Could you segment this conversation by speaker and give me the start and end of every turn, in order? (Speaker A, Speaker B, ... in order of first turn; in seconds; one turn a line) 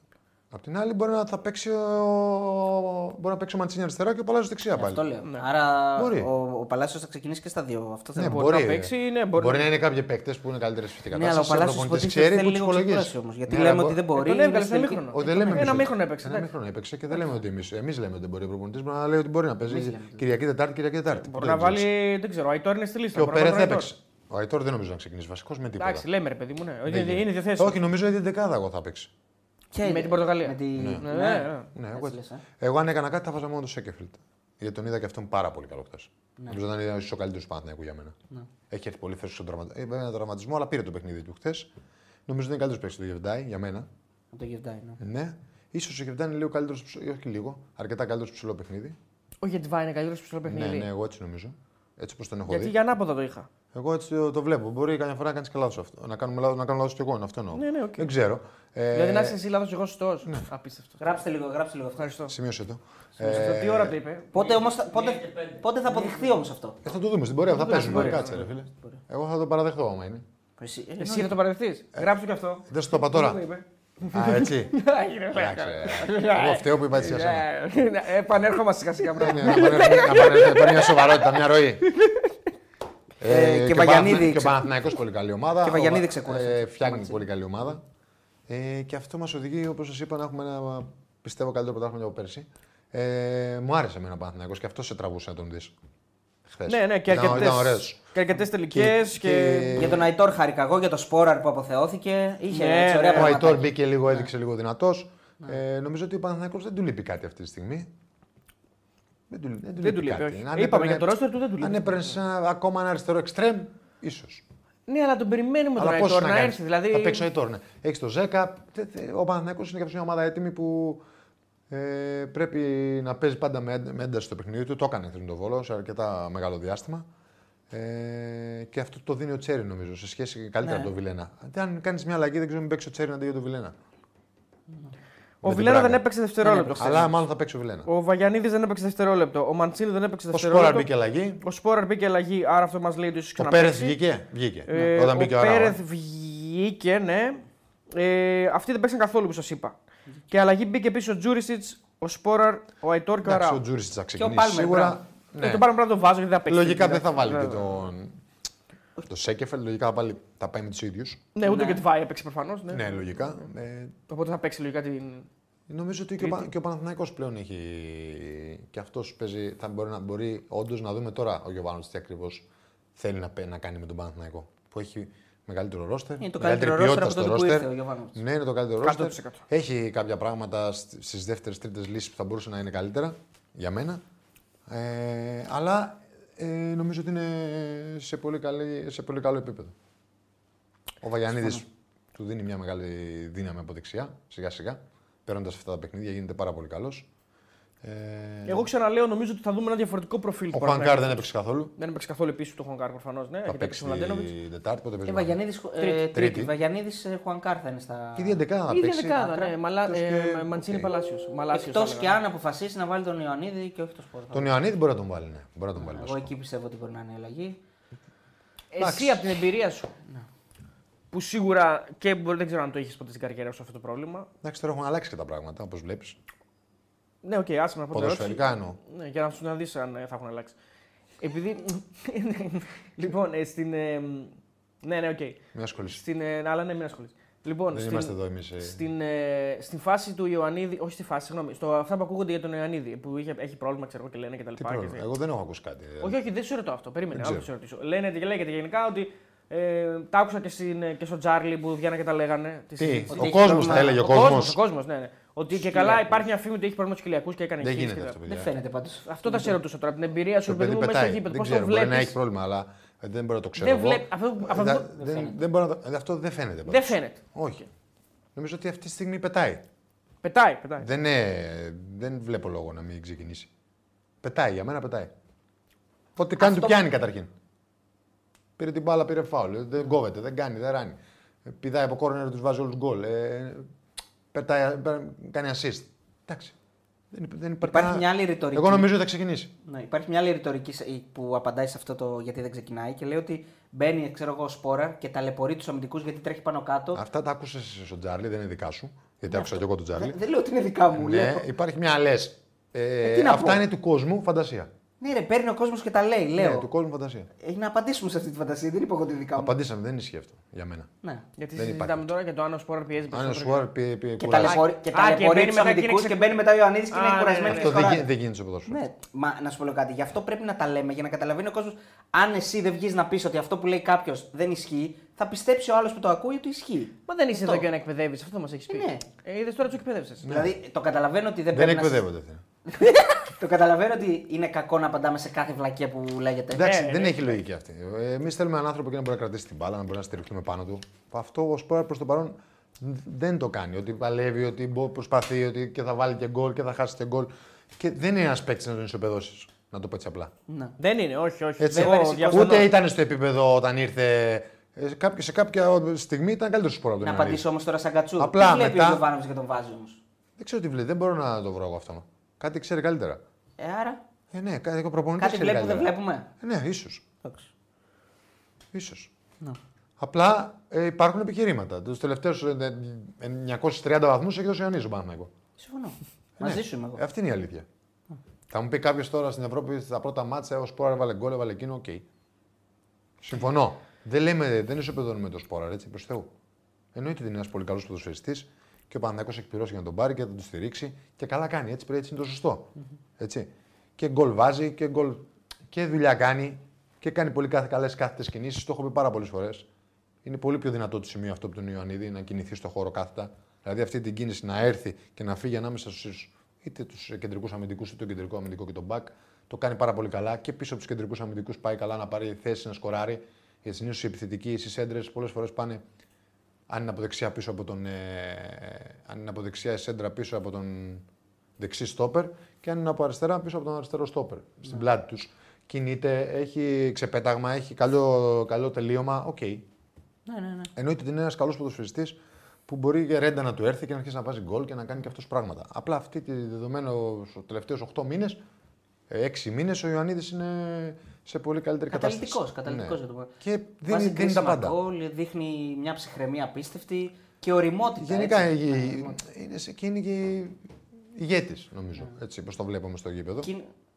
Speaker A: 0.5-5.0
Speaker B: 4.7-8.4
Speaker A: 6.0-6.3
Speaker A: 8.2-14.0
Speaker C: 8.2-9.7
Speaker B: 11.1-15.9
Speaker C: 14.1-16.5
Speaker A: 15.1-21.9
Speaker B: 19.7-20.3
Speaker C: 21.2-23.9
Speaker A: 23.1-26.1
Speaker C: 25.8-27.8
Speaker A: 26.9-29.1
Speaker B: 29.7-32.4
Speaker C: 29.8-31.7
Speaker A: 30.8-31.1
Speaker A: 31.7-38.1
Speaker A: 38.7-41.7
Speaker A: 42.3-43.9
Speaker B: 44.3-45.0
Speaker A: 45.0-49.0
Speaker C: 49.4-50.9
Speaker A: 50.5-52.7
Speaker C: 52.5-53.5
Speaker A: 53.7-59.4
Speaker C: 57.5-58.1
Speaker C: 58.9-61.2
Speaker B: 61.0-62.1
Speaker C: 62.0-62.3
Speaker A: 62.3-64.0
Speaker C: 63.2-64.6
Speaker B: 64.3-66.8
Speaker A: 66.8-70.2
Speaker C: 67.5-68.5
Speaker B: 67.7-69.0
Speaker B: 70.6-71.4
Speaker C: 71.0-82.3
Speaker A: 72.7-73.4
Speaker A: 74.1-74.8
Speaker A: 75.3-77.5
Speaker A: 79.1-81.9
Speaker A: 83.2-87.8
Speaker B: 83.2-84.7
Speaker B: 85.6-87.2
Speaker A: 88.5-95.7
Speaker A: 96.5-98.0
Speaker C: 96.7-100.0
Speaker A: 98.7-100.1
Speaker B: 99.8-103.7
Speaker C: 102.5-103.4
Speaker A: 103.1-107.9
Speaker A: 109.3-114.4
Speaker C: 109.8-112.1
Speaker C: 114.9-117.3
Speaker A: 115.8-121.0
Speaker A: 121.7-127.0
Speaker A: 127.7-133.7
Speaker B: 130.6-130.9
Speaker A: 135.4-136.0
Speaker C: 135.4-137.1
Speaker B: 136.4-137.1
Speaker A: 136.8-137.9
Speaker C: 137.9-140.9
Speaker A: 140.3-141.4
Speaker C: 141.4-144.0
Speaker A: 143.4-145.8
Speaker C: 144.7-149.8
Speaker C: 150.3-153.6
Speaker A: 153.2-155.7
Speaker B: 154.2-155.0
Speaker C: 155.4-157.8
Speaker A: 156.5-158.2
Speaker A: 159.1-161.2
Speaker C: 161.3-163.3
Speaker B: 161.4-161.8
Speaker A: 162.7-163.9
Speaker C: 164.1-165.3
Speaker A: 165.7-172.4
Speaker C: 166.2-166.5
Speaker A: 173.0-184.0
Speaker B: 176.2-178.2
Speaker C: 178.8-179.4
Speaker A: 184.7-189.7
Speaker A: 191.0-197.1
Speaker A: 197.8-198.7
Speaker C: 198.5-201.2
Speaker A: 200.5-201.7
Speaker C: 201.8-204.3
Speaker A: 203.5-205.4
Speaker B: 205.1-208.4
Speaker C: 205.8-206.1
Speaker A: 206.1-206.5
Speaker A: 208.2-209.3
Speaker C: 208.7-212.2
Speaker B: 209.2-209.5
Speaker A: 209.8-210.9
Speaker B: 211.5-214.6
Speaker A: 214.3-216.3
Speaker B: 215.8-217.6
Speaker C: 218.7-219.9
Speaker A: 218.8-219.4
Speaker C: 221.1-224.3
Speaker A: 224.4-226.2
Speaker C: 227.2-230.6
Speaker A: 227.9-228.8
Speaker C: 231.2-245.0
Speaker A: 235.5-236.0
Speaker A: 237.7-238.8
Speaker A: 244.6-246.2
Speaker C: 246.0-258.2
Speaker A: 247.1-247.5
Speaker A: 252.8-254.6
Speaker B: 253.1-254.1
Speaker B: 255.6-256.2
Speaker A: 257.6-258.5
Speaker B: 258.3-259.6
Speaker C: 259.1-262.1
Speaker A: 260.4-267.7
Speaker C: 263.6-265.2
Speaker B: 265.0-265.3
Speaker C: 266.7-267.2
Speaker A: 268.4-269.6
Speaker C: 270.2-270.9
Speaker A: 270.8-273.5
Speaker A: 274.2-275.1
Speaker A: 276.2-277.3
Speaker B: 276.4-276.8
Speaker A: 278.6-283.7
Speaker A: 284.3-286.6
Speaker A: 287.1-289.5
Speaker B: 287.6-288.9
Speaker B: 289.6-297.0
Speaker A: 296.9-300.2
Speaker B: 299.3-301.5
Speaker A: 300.9-304.7
Speaker B: 303.0-303.6
Speaker B: 305.0-306.7
Speaker A: 306.4-307.3
Speaker B: 307.4-309.5
Speaker A: 309.4-310.9
Speaker C: 311.4-313.7
Speaker A: 311.6-312.1
Speaker A: 313.1-314.6
Speaker B: 314.2-318.1
Speaker C: 314.4-318.0
Speaker A: 317.5-318.8
Speaker B: 318.7-327.7
Speaker C: 327.1-330.3
Speaker B: 328.7-329.1
Speaker A: 330.2-330.6
Speaker B: 330.2-332.1
Speaker A: 331.5-332.4
Speaker B: 332.7-336.8
Speaker A: 336.5-350.3
Speaker C: 336.6-337.4
Speaker B: 350.5-350.8
Speaker C: 350.8-352.7
Speaker A: 351.6-357.4
Speaker B: 351.7-352.7
Speaker B: 357.0-360.0
Speaker A: 358.2-359.0
Speaker A: 360.4-363.2
Speaker B: 363.6-364.0
Speaker A: 364.3-367.0
Speaker B: 365.2-366.3
Speaker B: 367.2-367.5
Speaker A: 368.7-369.1
Speaker A: 370.0-375.3
Speaker B: 375.6-377.0
Speaker A: 376.4-377.7
Speaker A: 378.5-382.1
Speaker A: 383.2-386.3
Speaker A: 386.9-399.7
Speaker A: 400.2-415.8
Speaker A: 416.7-421.0
Speaker A: 421.6-429.7
Speaker B: 430.3-430.7
Speaker A: 430.8-438.4
Speaker A: 439.1-444.8
Speaker B: 441.9-443.3
Speaker B: 443.9-449.2
Speaker A: 448.0-450.6
Speaker A: 451.1-453.5
Speaker B: 453.4-453.7